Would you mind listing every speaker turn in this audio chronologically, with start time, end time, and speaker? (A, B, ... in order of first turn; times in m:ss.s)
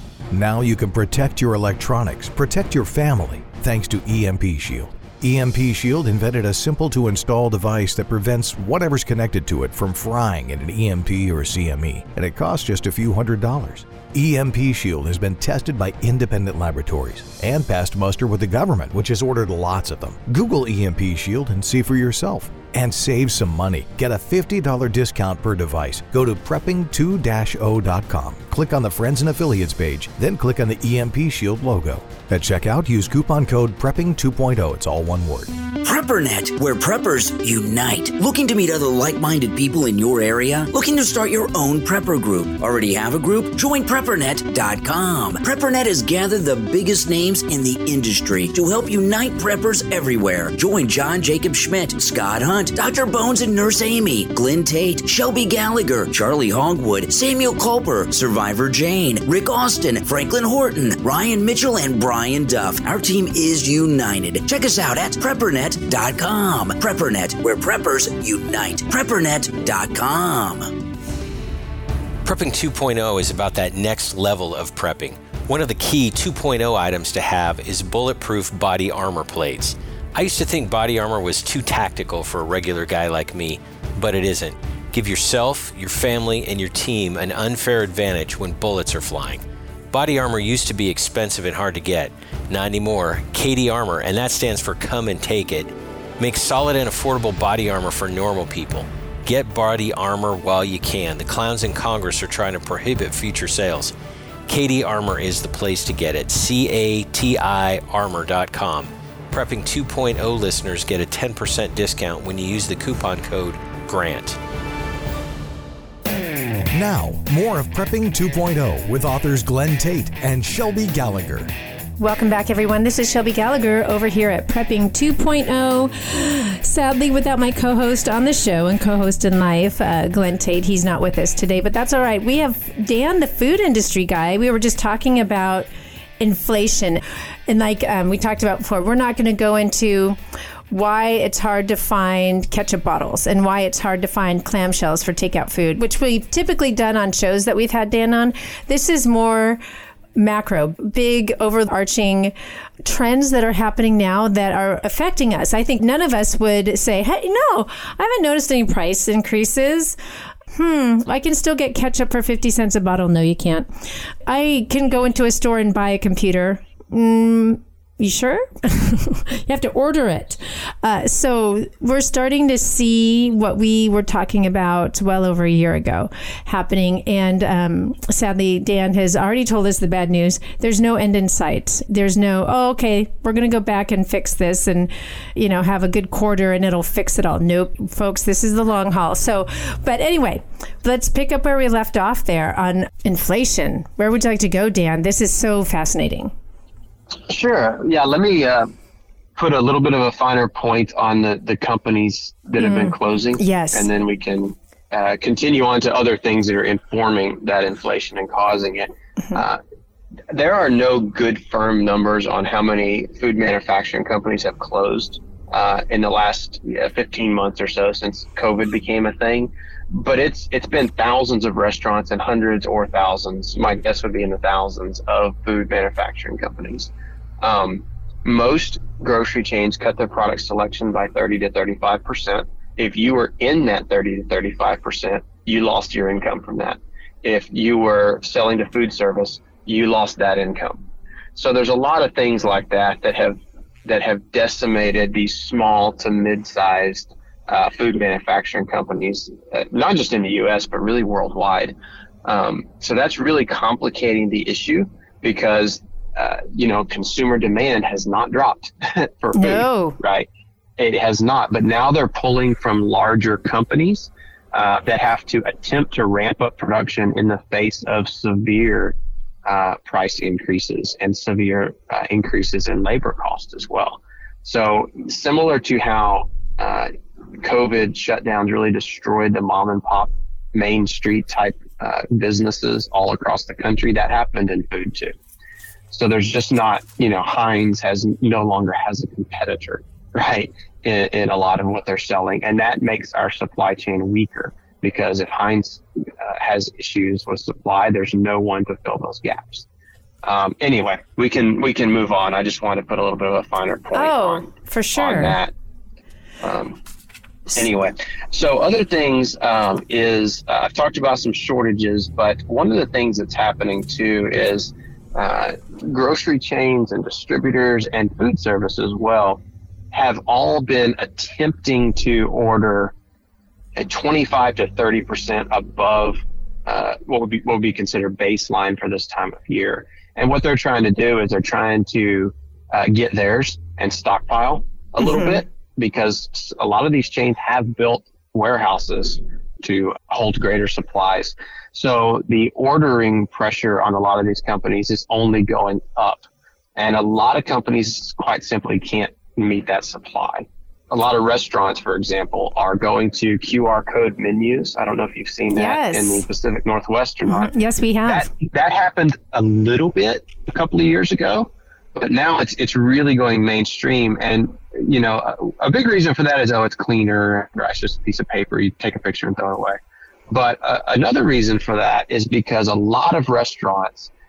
0:00.3-0:35.5 A
0:35.8-1:10.8 B
1:12.2-1:43.9 C
1:44.5-1:54.4 C
1:56.7-2:01.5 A
2:02.0-2:20.2 D
2:20.7-2:29.6 D
2:30.2-2:32.3 D
2:32.8-2:40.0 D
2:40.5-2:43.7 D
2:44.3-3:16.3 D
3:17.3-3:18.7 E
3:19.4-3:29.6 E
3:22.6-3:23.9 D
3:30.3-4:00.8 E
4:01.4-4:11.7 E
4:12.2-4:20.3 E
4:19.3-4:20.0 D
4:20.8-4:45.1 E
4:45.9-4:59.7 E
5:00.2-5:05.5 E
5:03.9-5:05.4 D
5:06.4-5:06.8 E
5:07.5-5:19.4 E
5:19.9-5:22.9 E
5:23.8-5:46.2 E
5:35.0-5:35.4 D
5:46.8-5:57.5 E
5:55.5-5:56.2 D
5:57.3-5:58.3 D
5:58.1-6:09.8 E
6:10.3-6:14.1 E